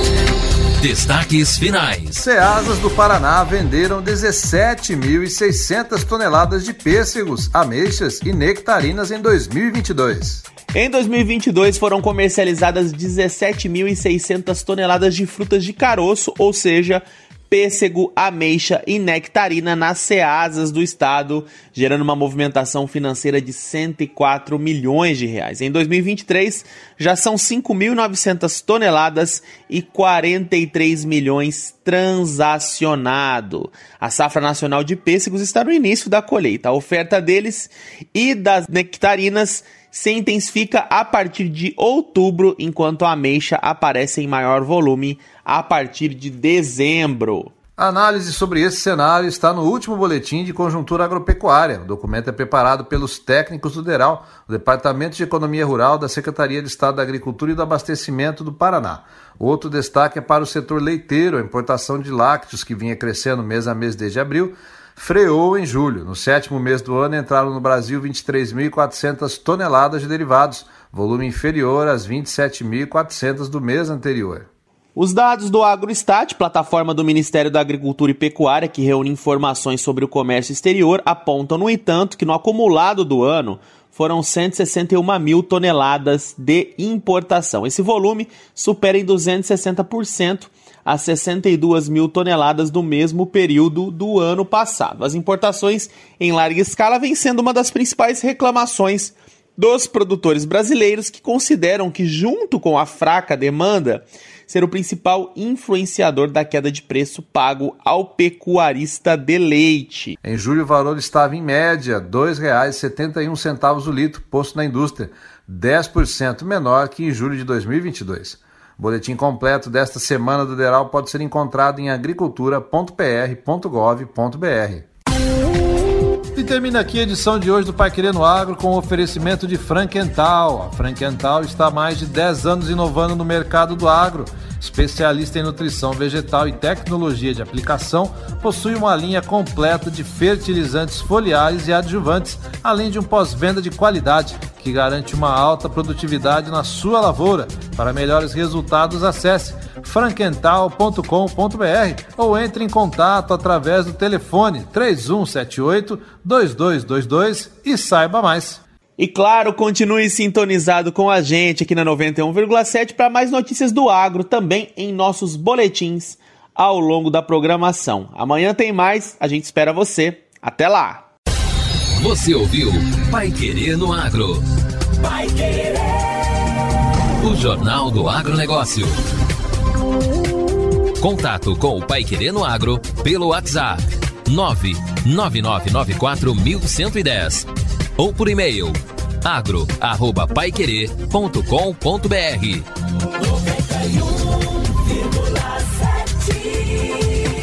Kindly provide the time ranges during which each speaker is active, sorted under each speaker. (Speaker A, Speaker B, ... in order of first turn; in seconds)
Speaker A: 0.8-2.2, 172.0-174.4, 177.2-179.0, 181.0-192.7
Speaker B: 2.2-10.4, 47.8-74.5, 110.2-124.9, 126.3-158.6
Speaker C: 10.7-47.5, 75.0-110.2, 159.0-171.1